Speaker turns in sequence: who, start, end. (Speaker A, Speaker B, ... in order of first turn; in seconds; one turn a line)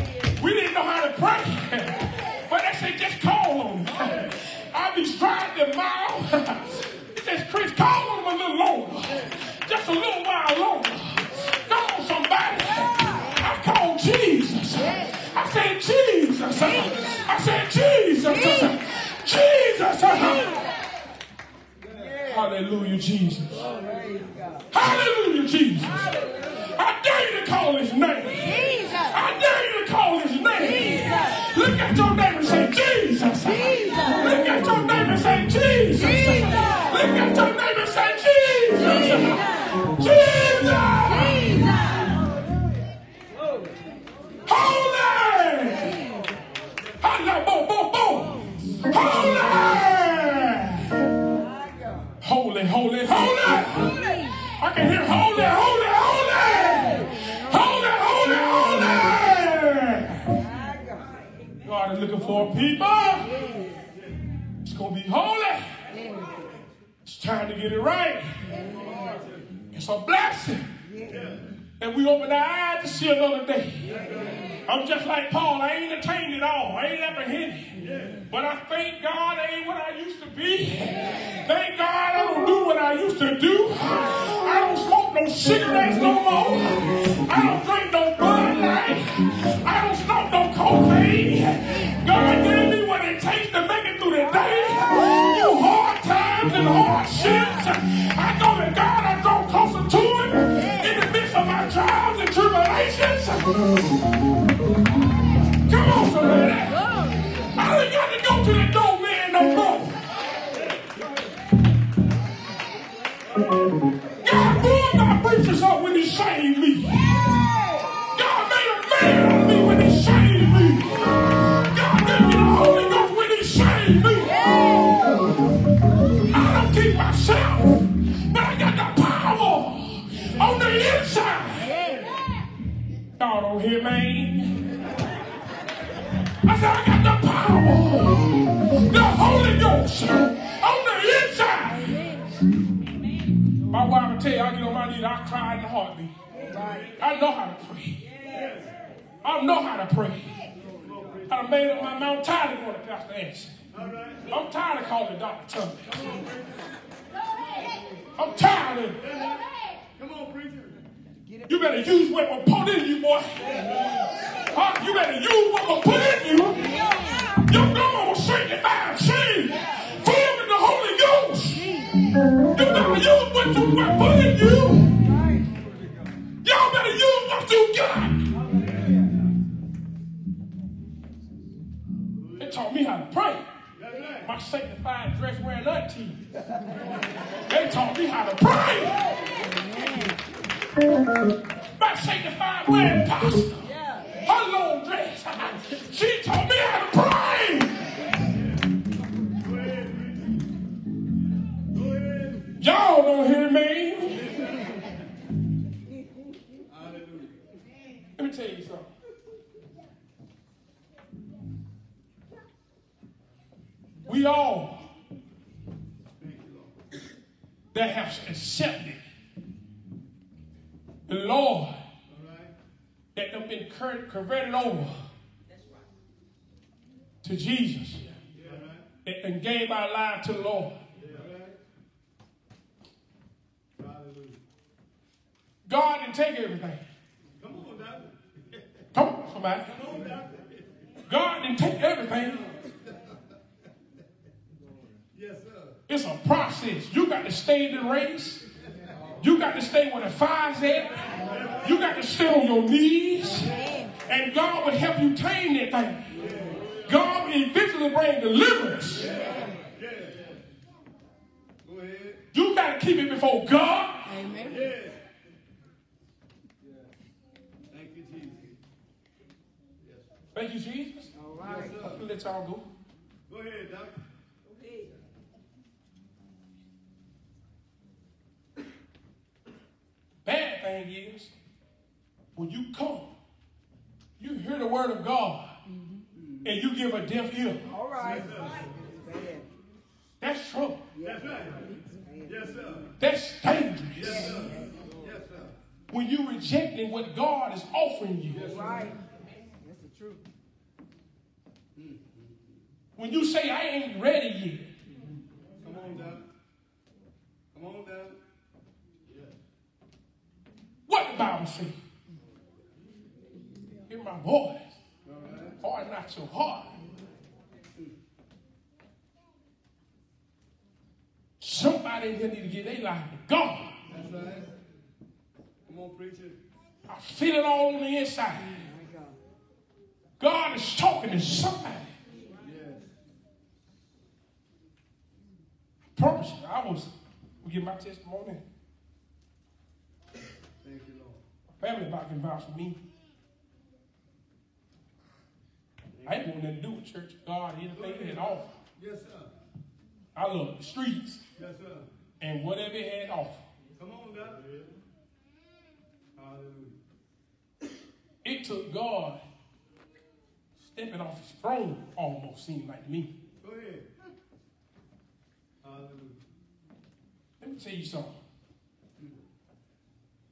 Speaker A: 0.3-20.6
Speaker A: 22.3-23.7
Speaker B: 23.8-24.5
Speaker A: 24.7-26.2
Speaker A: 26.7-41.7
Speaker A: 44.5-46.0
Speaker A: 47.0-51.0
Speaker A: 52.2-54.0
Speaker A: 54.6-60.4
Speaker B: 60.6-60.9
Speaker A: 61.6-63.3
Speaker A: 64.6-65.7
Speaker A: 67.0-68.5
Speaker A: 69.7-70.7
Speaker C: 71.2-71.5
Speaker A: 71.8-73.9
Speaker A: 74.6-77.7
Speaker A: 78.3-103.6
Speaker A: 105.7-106.9
Speaker A: 107.5-110.0
Speaker A: 114.2-117.1
Speaker A: 118.1-121.1
Speaker A: 121.7-124.4
Speaker A: 126.3-131.7
Speaker A: 133.2-134.6
Speaker A: 136.4-138.3
Speaker A: 138.8-142.1
Speaker A: 143.7-146.1
Speaker B: 146.6-146.8
Speaker A: 147.0-148.1
Speaker C: 148.3-148.7
Speaker A: 149.2-150.4
Speaker C: 150.7-151.3
Speaker A: 151.3-153.5
Speaker C: 153.7-154.2
Speaker A: 154.3-156.0
Speaker A: 158.1-159.0
Speaker C: 159.9-160.8
Speaker A: 161.5-163.4
Speaker A: 164.5-166.7
Speaker A: 167.5-171.7
Speaker A: 172.5-174.9
Speaker A: 176.4-178.2
Speaker C: 178.5-179.0
Speaker C: 182.1-182.3
Speaker A: 182.4-183.4
Speaker C: 183.8-184.2
Speaker A: 184.2-186.2
Speaker A: 187.5-189.0
Speaker A: 191.8-193.7
Speaker A: 194.2-197.8
Speaker C: 199.4-200.4
Speaker C: 201.7-202.4
Speaker A: 202.6-204.3
Speaker C: 206.7-207.4
Speaker A: 208.2-208.9
Speaker A: 214.0-214.8
Speaker C: 216.2-216.7
Speaker A: 217.7-219.0
Speaker A: 221.1-221.8
Speaker C: 222.1-222.5
Speaker A: 223.1-225.0
Speaker A: 227.2-228.1
Speaker C: 228.3-228.9
Speaker A: 229.0-230.8
Speaker C: 230.9-231.6
Speaker C: 233.8-234.4
Speaker A: 235.7-236.8
Speaker C: 237.3-238.6
Speaker A: 238.9-239.8
Speaker C: 239.7-240.7
Speaker A: 241.1-242.4
Speaker C: 245.1-245.8
Speaker A: 245.9-248.4
Speaker A: 249.2-251.1
Speaker A: 251.6-253.5
Speaker A: 254.1-256.1
Speaker C: 256.3-256.7
Speaker A: 256.8-259.1
Speaker C: 259.4-260.4
Speaker C: 261.6-262.2
Speaker A: 262.3-264.4
Speaker C: 264.5-265.0
Speaker C: 266.6-266.9
Speaker C: 267.7-268.6
Speaker C: 269.8-270.1
Speaker A: 270.3-271.1
Speaker B: 271.1-271.8
Speaker C: 271.4-272.0
Speaker A: 271.7-272.6
Speaker C: 273.3-274.0
Speaker A: 280.2-281.3
Speaker A: 282.4-283.1
Speaker A: 284.2-285.6
Speaker C: 286.1-286.5
Speaker A: 286.4-287.6
Speaker B: 287.7-288.3
Speaker C: 288.0-288.8
Speaker B: 289.0-289.4
Speaker A: 290.2-290.9
Speaker C: 291.0-292.9
Speaker A: 293.0-294.3
Speaker C: 294.0-295.5
Speaker A: 295.9-298.5
Speaker C: 298.3-298.8
Speaker B: 298.4-299.0
Speaker B: 299.7-300.2
Speaker C: 301.8-302.7
Speaker A: 302.9-304.7
Speaker C: 305.6-306.2
Speaker C: 307.5-308.2
Speaker C: 309.0-309.4
Speaker A: 310.9-311.8
Speaker A: 313.9-314.8
Speaker C: 315.0-315.6
Speaker A: 315.6-316.7
Speaker A: 321.4-323.7
Speaker C: 323.9-324.5
Speaker C: 325.6-326.4
Speaker A: 326.9-328.6
Speaker B: 328.6-329.1
Speaker A: 330.2-331.9
Speaker C: 332.3-332.9
Speaker A: 335.9-338.4
Speaker C: 340.6-341.2
Speaker A: 341.6-342.8
Speaker C: 345.9-346.2
Speaker A: 346.0-348.5
Speaker C: 347.7-349.3
Speaker A: 350.1-351.2
Speaker C: 351.4-351.9
Speaker A: 352.2-353.4
Speaker C: 353.8-354.7
Speaker C: 356.1-356.8
Speaker A: 358.2-359.2
Speaker A: 360.6-363.1
Speaker C: 363.4-363.9
Speaker C: 365.6-366.2
Speaker A: 367.4-368.2